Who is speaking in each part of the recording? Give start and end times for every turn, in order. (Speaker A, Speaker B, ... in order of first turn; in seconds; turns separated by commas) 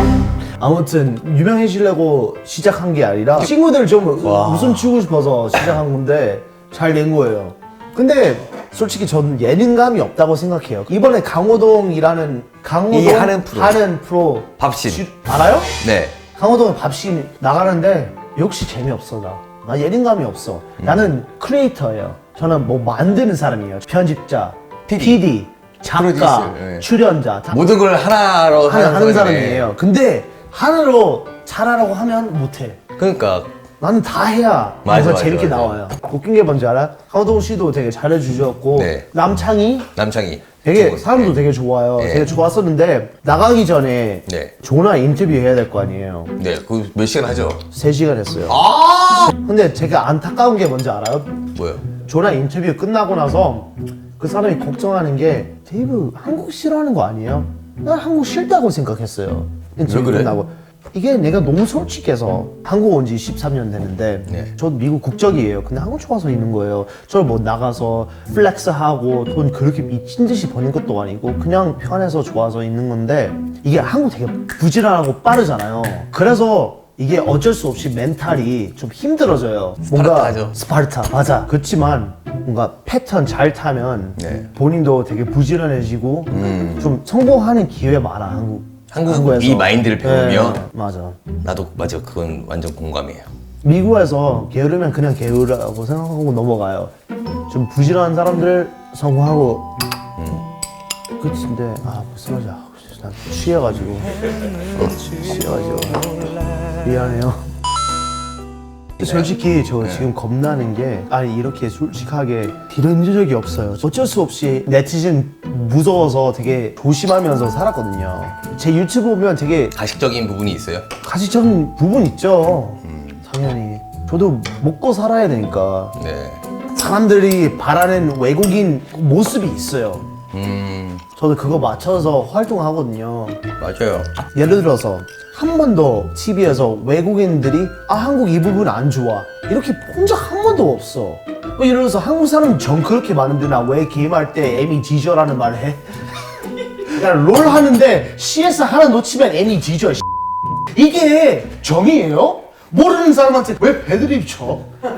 Speaker A: 0.6-15.7, Speaker B: 4.2-4.9, Speaker B: 12.9-13.8, Speaker B: 14.6-15.1, Speaker B: 15.8-16.2, Speaker A: 16.4-27.6, Speaker B: 20.8-21.1, Speaker B: 24.9-25.2, Speaker B: 25.9-26.9, Speaker B: 27.5-29.7, Speaker A: 28.7-32.8, Speaker B: 33.0-33.5, Speaker A: 33.8-39.9, Speaker B: 34.8-35.8, Speaker B: 38.8-39.1, Speaker B: 40.0-41.4, Speaker A: 40.6-46.4, Speaker B: 42.0-42.3, Speaker B: 44.3-44.5, Speaker B: 46.4-47.7, Speaker A: 47.7-48.6, Speaker B: 48.5-49.4, Speaker A: 49.3-51.4, Speaker B: 51.5-51.9, Speaker A: 51.9-91.2, Speaker B: 59.9-60.4, Speaker B: 79.9-80.6, Speaker B: 84.2-84.5, Speaker B: 86.3-86.9, Speaker B: 88.9-90.7, Speaker B: 91.4-93.3, Speaker A: 93.6-96.9, Speaker A: 97.5-99.7, Speaker B: 100.2-100.5, Speaker A: 101.2-104.2, Speaker A: 104.8-106.1, Speaker A: 106.8-107.5, Speaker A: 109.0-119.8, Speaker B: 109.0-110.1, Speaker B: 119.8-120.9, Speaker A: 121.0-126.0, Speaker B: 122.8-123.2, Speaker B: 126.0-126.4, Speaker A: 126.8-130.1, Speaker B: 130.3-131.1, Speaker A: 131.2-133.4, Speaker B: 133.6-134.1, Speaker A: 134.3-145.8, Speaker A: 146.8-150.0, Speaker A: 150.7-154.7